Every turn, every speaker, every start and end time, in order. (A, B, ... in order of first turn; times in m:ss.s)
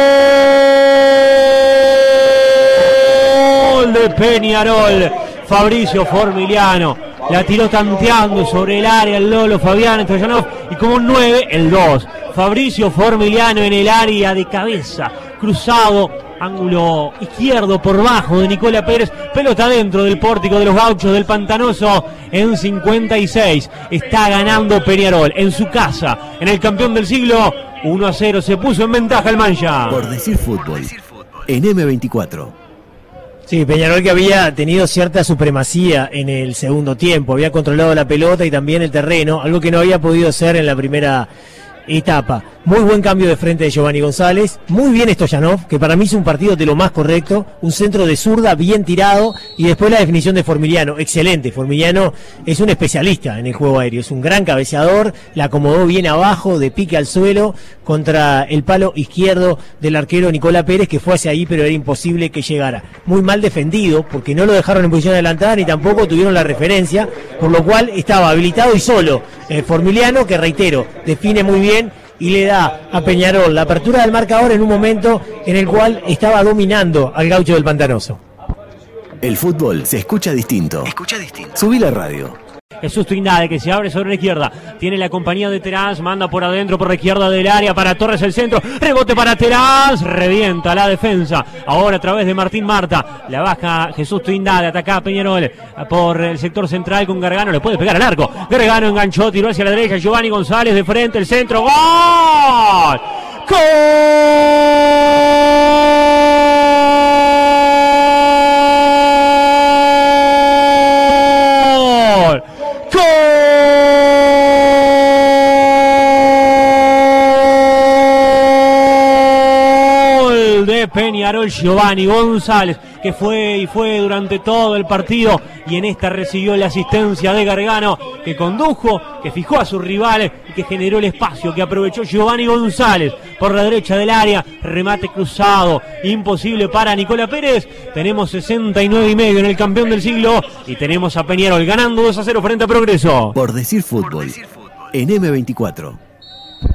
0:00.3-0:30.0 A
0:29.9-0:31.0 B
0:31.5-0:32.5 B
0:33.5-0:41.3 C
0:41.9-1:18.2 C
1:19.2-1:22.4 B
1:22.8-1:46.0 A
1:50.0-2:23.4 A
2:23.4-2:24.4 B
2:24.9-2:26.0 B